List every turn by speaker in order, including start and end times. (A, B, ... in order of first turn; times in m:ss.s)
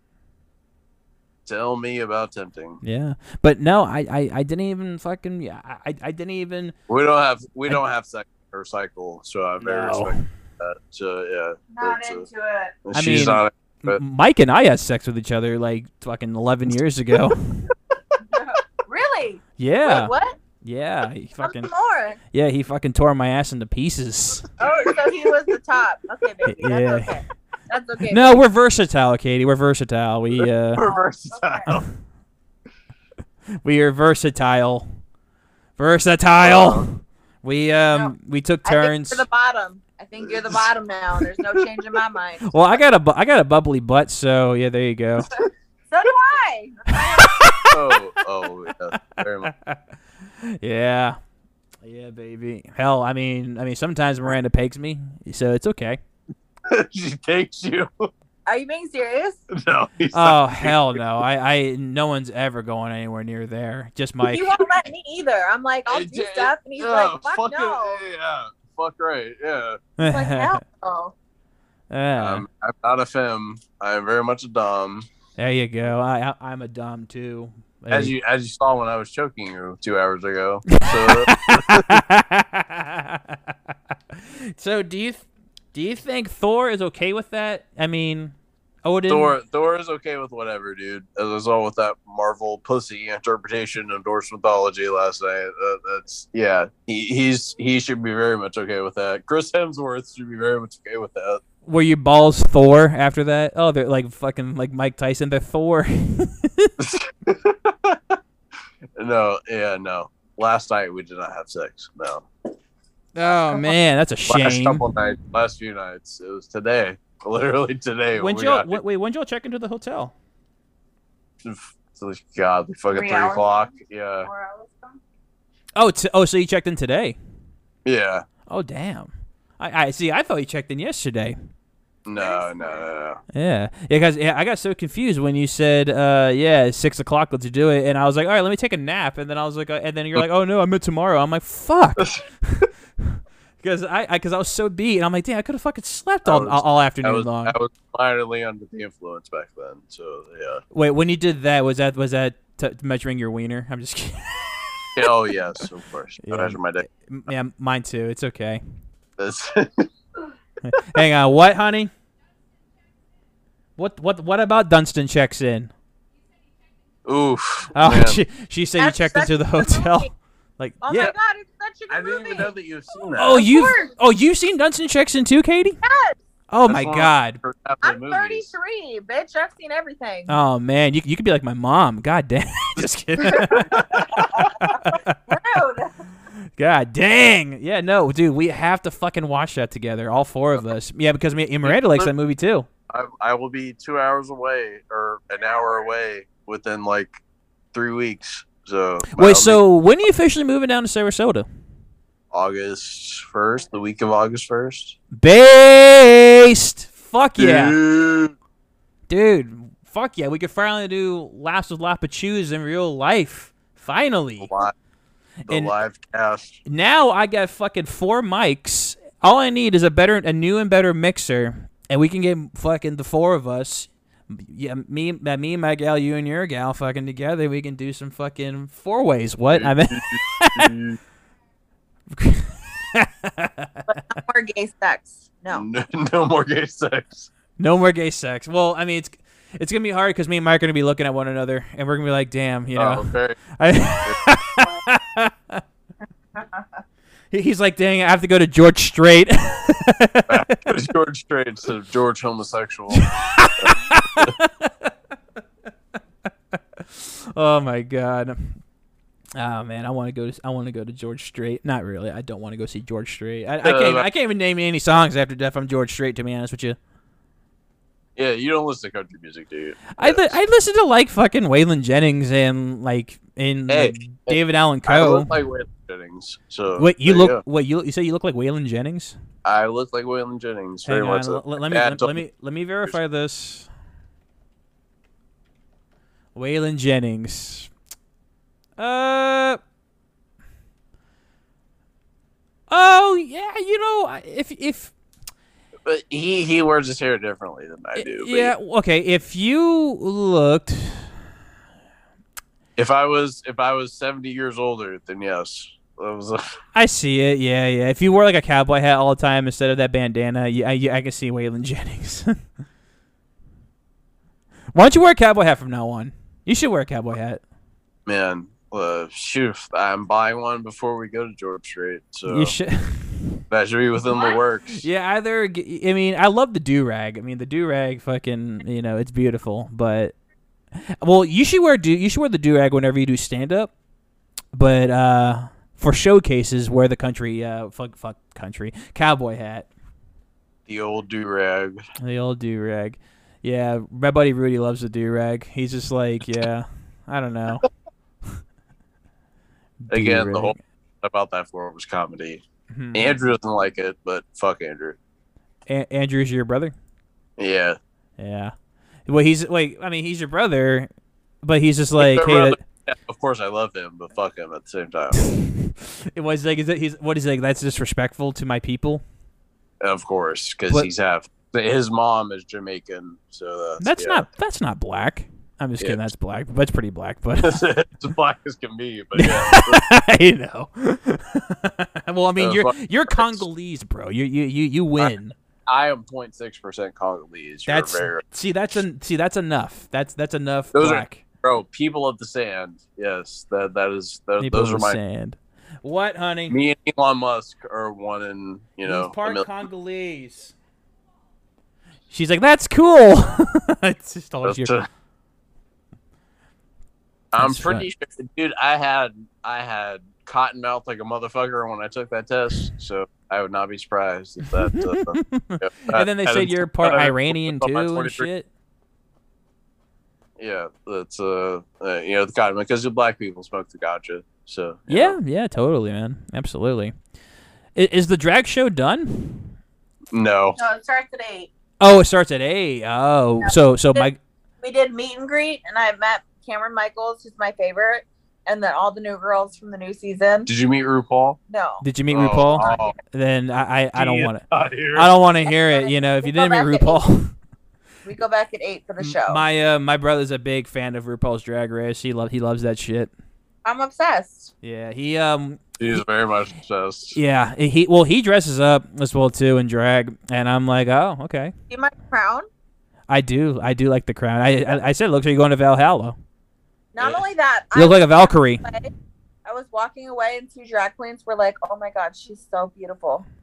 0:01.4-0:02.8 A
0:02.8-0:06.7 B
0:06.9-0:12.3 A
0:09.6-0:10.2 B
0:11.7-0:12.8 C
0:12.8-0:14.0 A
0:12.9-0:17.4 B
0:18.3-0:20.4 C
0:19.6-0:21.7 B
0:21.4-0:22.2 C
0:22.3-0:24.5 B
0:24.6-0:25.3 A
0:24.6-0:28.4 C
0:26.4-0:27.2 B
0:28.1-0:30.8 B
0:30.4-0:31.8 A
0:30.9-0:31.7 C
0:33.6-0:34.9 B
0:35.8-0:39.2 B
0:36.4-0:36.8 A
0:38.6-0:42.5 C
0:40.2-0:40.6 A
0:42.4-0:45.3 B
0:45.9-0:47.6 C
0:46.9-0:47.9 B
0:47.7-0:49.5 A
0:49.4-0:49.8 B
0:50.4-0:51.2 B
0:51.8-0:56.0 B
0:56.7-0:58.1 A
0:58.5-0:59.4 C
0:59.5-1:01.0 A
1:00.1-1:04.5 B
1:04.2-1:08.0 C
1:05.8-1:09.8 A
1:10.0-1:10.6 B
1:10.0-1:11.1 C
1:11.9-1:12.4 B
1:12.2-1:15.0 A
1:15.4-1:18.1 B
1:17.9-1:22.0 A
1:20.7-1:23.5 B
1:24.1-1:28.3 B
1:28.8-1:29.4 B
1:29.1-1:41.4 A
1:41.6-1:46.7 B
1:46.8-1:48.2 A
1:49.0-1:52.3 A
1:53.1-1:54.8 B
1:54.3-1:58.8 A
1:58.1-2:00.1 B
2:01.4-2:04.3 A
2:02.9-2:05.0 C
2:05.7-2:07.2 B
2:07.8-2:08.2 A
2:08.5-2:11.4 B
2:12.0-2:13.2 A
2:12.1-2:12.9 C
2:13.3-2:27.5 B
2:26.2-2:30.6 A
2:30.7-2:35.1 B
2:34.9-2:36.9 A
2:36.2-2:38.6 B
2:39.2-2:39.9 A
2:40.6-2:41.9 B
2:43.8-2:45.7 B
2:47.0-2:48.2 A
2:47.7-2:51.1 B
2:48.8-2:50.1 C
2:50.8-2:52.5 C
2:51.9-2:53.5 A
2:53.2-2:55.8 B
2:53.2-2:53.9 C
2:55.8-2:56.2 C
2:56.5-2:57.4 B
2:56.6-2:58.5 A
2:57.8-3:00.3 C
3:00.3-3:05.2 B
3:03.3-3:05.9 C
3:03.6-3:04.0 A
3:06.6-3:12.7 B
3:11.6-3:12.1 A
3:12.9-3:17.2 A
3:17.7-3:19.6 A
3:19.1-3:21.5 B
3:22.3-3:25.0 A
3:25.1-3:27.8 B
3:27.4-3:28.3 A
3:29.1-3:34.5 B
3:34.4-3:34.7 A
3:35.5-3:35.7 B
3:35.5-3:36.6 A
3:36.6-3:50.7 B
3:49.5-3:51.0 A
3:52.1-3:53.9 B
3:53.9-3:55.6 C
3:55.5-3:57.3 A
3:57.6-4:05.6 B
4:02.8-4:03.4 A
4:06.3-4:06.6 C
4:07.3-4:10.6 B
4:10.3-4:14.3 A
4:12.9-4:14.9 B
4:16.5-4:18.6 B
4:19.4-4:26.8 B
4:23.6-4:24.1 A
4:28.2-4:30.4 A
4:29.9-4:35.3 B
4:33.7-4:37.4 A
4:36.8-4:39.1 B
4:39.4-4:42.2 A
4:40.8-4:43.7 B
4:46.3-4:47.7 B
4:48.8-4:49.6 B
4:52.7-4:54.9 B
4:55.8-4:58.5 A
4:58.0-5:01.1 B
5:02.8-5:06.5 A
5:06.7-5:12.4 B
5:14.7-5:17.4 B
5:18.0-5:22.5 A
5:22.3-5:23.4 B
5:23.5-5:24.8 A
5:24.7-5:30.1 B
5:31.0-5:33.7 B
5:34.5-5:39.7 B
5:40.7-5:41.8 A
5:42.0-5:47.7 B
5:49.8-5:50.6 B
5:49.9-5:52.4 A
5:52.7-5:53.3 B
5:52.9-5:55.0 A
5:55.7-5:56.7 B
5:57.4-5:57.8 A
5:58.2-5:58.5 B
5:59.1-6:00.9 B
6:01.4-6:02.6 B
6:02.0-6:05.2 A
6:05.2-6:09.0 B
6:09.8-6:14.2 A
6:13.8-6:17.7 B
6:15.8-6:16.0 A
6:17.4-6:19.8 A
6:19.2-6:25.3 B
6:22.4-6:23.4 A
6:25.7-6:28.2 A
6:27.6-6:31.2 B
6:30.7-6:35.0 A
6:34.4-6:36.6 B
6:36.5-6:39.5 A
6:38.8-6:40.5 B
6:42.1-6:44.7 B
6:44.4-6:44.9 A
6:47.3-6:58.3 A
6:47.4-6:47.9 B
6:54.5-6:58.5 B
7:00.4-7:05.2 A
7:04.9-7:06.9 B
7:07.7-7:09.6 B
7:10.1-7:10.6 A
7:10.6-7:11.5 C
7:11.8-7:14.2 B
7:13.4-7:14.1 C
7:14.6-7:20.5 C
7:20.4-7:21.4 A
7:21.5-7:21.8 C
7:21.8-7:27.3 B
7:22.1-7:23.0 A
7:22.6-7:22.9 C
7:23.9-7:25.1 A
7:25.4-7:27.0 C
7:28.0-7:29.4 C
7:29.0-7:33.1 B
7:33.6-7:34.5 C
7:34.6-7:35.7 B
7:35.8-7:37.2 A
7:37.1-7:41.5 B
7:41.7-7:42.5 C
7:43.1-7:46.2 B
7:46.9-7:48.9 C
7:47.0-7:47.2 A
7:47.7-7:48.6 B
7:49.4-7:53.2 C